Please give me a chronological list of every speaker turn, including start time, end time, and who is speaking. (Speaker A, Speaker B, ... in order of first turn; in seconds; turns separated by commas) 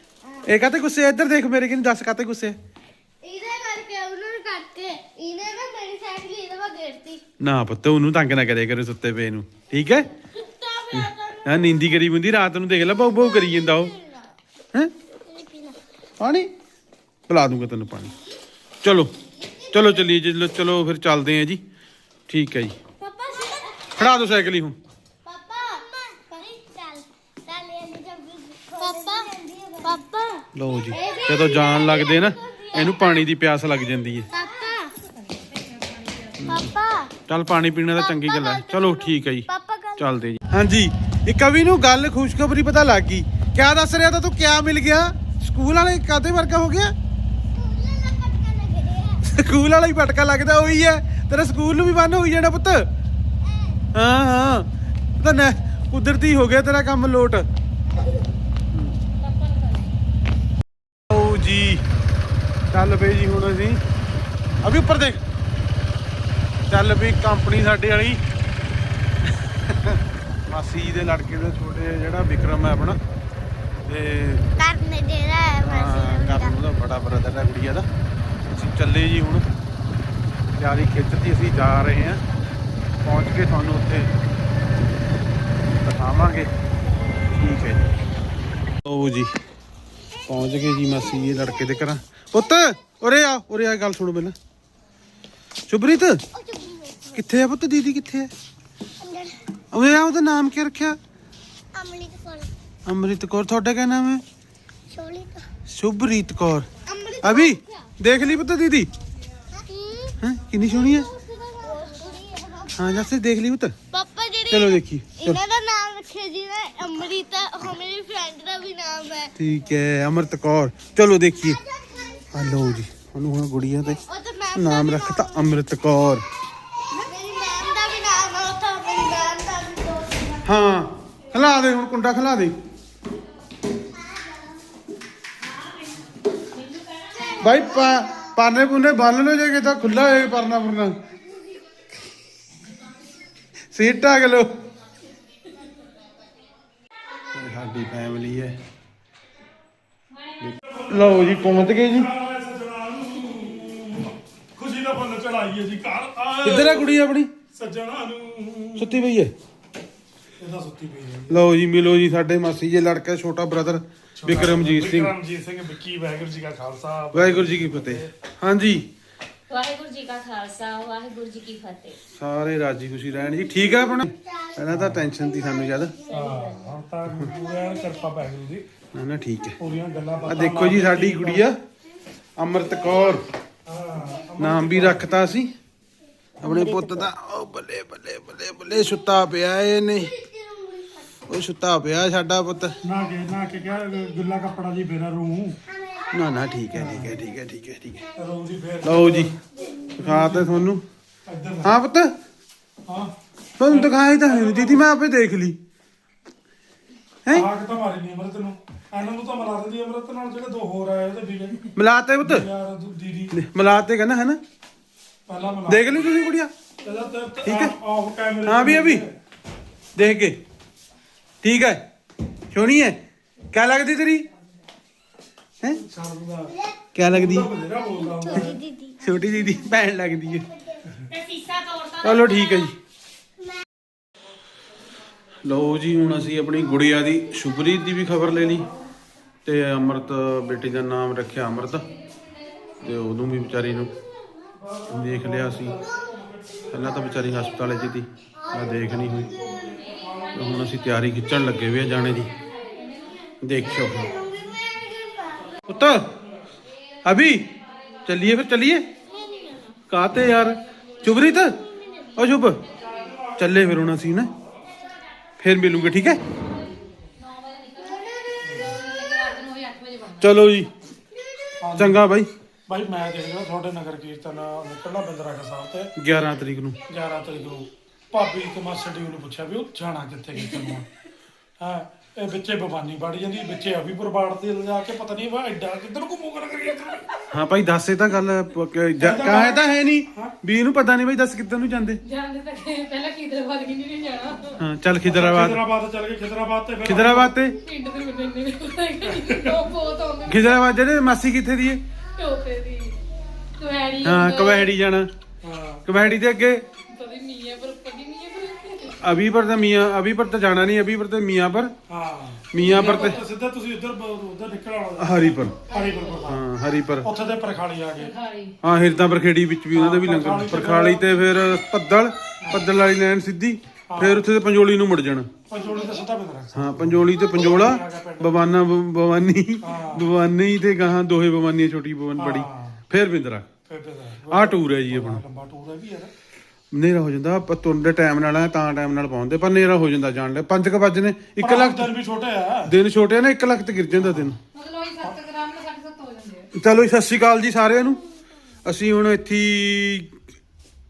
Speaker A: 0.4-2.6, Speaker B: 3.2-7.2, Speaker A: 7.4-10.1, Speaker B: 10.3-12.0, Speaker A: 10.9-13.9, Speaker B: 12.9-14.3, Speaker B: 15.3-15.8, Speaker A: 16.2-16.5, Speaker A: 17.3-18.1, Speaker A: 18.8-19.1, Speaker B: 19.2-20.1, Speaker A: 19.7-21.6, Speaker A: 22.3-22.8, Speaker B: 23.0-24.1, Speaker A: 23.9-24.8, Speaker B: 25.2-33.2, Speaker C: 25.8-26.9, Speaker C: 27.6-30.2, Speaker A: 30.5-34.3, Speaker B: 34.3-35.0, Speaker D: 35.1-36.6, Speaker A: 36.4-36.7, Speaker B: 36.5-37.1, Speaker A: 37.3-46.9, Speaker B: 38.0-40.0, Speaker B: 47.5-49.2, Speaker A: 49.2-52.9, Speaker B: 53.4-53.8, Speaker A: 53.9-54.7, Speaker A: 55.2-57.5, Speaker D: 59.2-59.9, Speaker A: 61.1-61.8, Speaker A: 62.7-63.8, Speaker A: 64.6-65.2, Speaker A: 66.7-68.2, Speaker A: 69.4-73.0, Speaker A: 73.9-74.4, Speaker B: 74.6-76.5, Speaker C: 74.8-75.5, Speaker A: 75.6-77.9, Speaker A: 78.5-79.4, Speaker A: 80.6-82.2, Speaker A: 83.0-84.1, Speaker A: 85.8-86.5, Speaker A: 87.3-87.9, Speaker A: 88.8-89.3, Speaker A: 90.2-94.3, Speaker A: 95.7-96.2, Speaker B: 96.3-97.1, Speaker A: 97.1-98.3, Speaker B: 99.0-99.4, Speaker A: 99.7-101.0, Speaker B: 101.7-102.5, Speaker C: 102.0-102.4, Speaker A: 102.8-104.2, Speaker B: 104.9-105.4, Speaker C: 105.0-105.2, Speaker A: 105.7-106.7, Speaker B: 106.8-107.9, Speaker A: 107.2-108.9, Speaker B: 109.5-113.0, Speaker A: 110.2-111.1, Speaker C: 111.6-112.3, Speaker A: 112.7-113.7, Speaker B: 113.9-119.3, Speaker A: 114.5-115.4, Speaker A: 119.3-121.6, Speaker B: 121.5-122.7, Speaker A: 122.3-124.0, Speaker B: 124.0-125.5, Speaker A: 124.5-126.2, Speaker B: 127.0-130.4, Speaker A: 130.4-132.5, Speaker B: 134.0-134.5, Speaker B: 137.1-138.1, Speaker A: 137.4-140.9, Speaker A: 143.7-144.5, Speaker A: 147.3-148.6, Speaker A: 150.4-152.1, Speaker E: 150.6-157.0, Speaker A: 156.4-157.3, Speaker E: 157.5-159.1, Speaker A: 158.8-159.3, Speaker E: 160.4-161.4, Speaker A: 161.3-165.1, Speaker E: 164.2-168.1, Speaker A: 167.1-168.9, Speaker C: 169.5-172.0, Speaker A: 172.1-176.0, Speaker B: 173.5-174.3, Speaker E: 174.7-175.1, Speaker B: 175.2-176.6, Speaker E: 176.1-178.6, Speaker A: 177.1-177.3, Speaker B: 177.4-177.8, Speaker A: 178.9-179.6, Speaker E: 179.6-181.5, Speaker A: 180.2-181.6, Speaker A: 182.4-183.2, Speaker E: 183.7-185.1, Speaker A: 184.4-185.5, Speaker E: 186.4-187.1, Speaker A: 186.4-190.2, Speaker B: 190.2-190.9, Speaker A: 191.3-192.8, Speaker E: 192.8-195.6, Speaker B: 195.7-196.1, Speaker A: 196.1-198.1, Speaker E: 196.7-197.2, Speaker E: 198.1-199.4, Speaker A: 198.8-199.3, Speaker A: 199.9-200.8, Speaker E: 199.9-200.7, Speaker E: 201.2-201.8, Speaker A: 201.6-202.1, Speaker E: 202.9-203.1, Speaker A: 203.6-205.6, Speaker E: 203.7-204.9, Speaker E: 207.3-211.7, Speaker A: 211.7-212.5, Speaker E: 212.2-213.3, Speaker A: 213.3-214.4, Speaker E: 215.3-216.1, Speaker A: 215.7-216.5, Speaker E: 216.8-219.2, Speaker A: 217.4-217.7, Speaker A: 218.4-219.0, Speaker A: 219.9-220.4, Speaker A: 221.4-221.8, Speaker A: 222.5-223.0, Speaker A: 223.5-224.3, Speaker E: 225.7-228.6, Speaker A: 226.9-227.5, Speaker B: 228.0-228.9, Speaker A: 228.3-230.5, Speaker C: 231.6-232.0, Speaker A: 232.0-232.7, Speaker A: 235.4-238.7, Speaker A: 239.4-241.8, Speaker A: 242.8-243.9, Speaker E: 244.5-247.4, Speaker A: 244.9-245.8, Speaker A: 246.7-249.4, Speaker E: 248.6-250.8, Speaker A: 250.3-252.3, Speaker D: 252.4-253.2, Speaker A: 253.4-254.1, Speaker E: 253.6-254.0, Speaker B: 254.0-255.6, Speaker A: 255.7-256.1, Speaker A: 257.0-257.5, Speaker A: 258.0-258.9, Speaker B: 259.1-259.7, Speaker A: 259.9-261.6, Speaker B: 261.4-262.1, Speaker A: 262.1-262.6, Speaker E: 262.7-264.3, Speaker A: 263.4-264.3, Speaker A: 265.4-266.2, Speaker D: 267.0-270.3, Speaker E: 268.4-268.7, Speaker A: 270.2-270.7, Speaker E: 271.6-272.0, Speaker A: 271.7-272.3, Speaker E: 272.7-275.9, Speaker A: 276.0-276.8, Speaker E: 276.9-280.9, Speaker E: 281.6-287.1, Speaker A: 287.3-292.0, Speaker E: 289.0-290.3, Speaker D: 292.0-294.6, Speaker A: 294.6-295.6, Speaker E: 295.0-297.4, Speaker A: 296.8-297.6, Speaker D: 297.6-300.6, Speaker E: 299.1-299.6, Speaker A: 300.3-301.8, Speaker D: 302.1-303.0, Speaker D: 303.6-304.7, Speaker A: 304.0-305.1, Speaker E: 305.4-305.9, Speaker A: 305.8-306.6, Speaker D: 306.8-309.0, Speaker A: 309.0-311.7, Speaker E: 311.9-316.4, Speaker A: 312.5-313.2, Speaker D: 312.6-313.1, Speaker A: 315.0-315.5, Speaker A: 316.2-317.1, Speaker E: 317.0-318.1, Speaker D: 318.0-318.5, Speaker A: 318.6-325.3, Speaker E: 319.7-321.1, Speaker E: 323.9-324.2, Speaker E: 325.5-328.5, Speaker A: 326.5-333.5, Speaker E: 329.6-330.1, Speaker E: 332.1-332.8, Speaker E: 333.6-336.1, Speaker A: 334.3-335.2, Speaker A: 336.7-341.9, Speaker E: 341.4-342.7, Speaker A: 342.6-344.4, Speaker E: 343.9-344.3, Speaker D: 344.5-346.5, Speaker A: 346.5-348.0, Speaker A: 348.6-350.1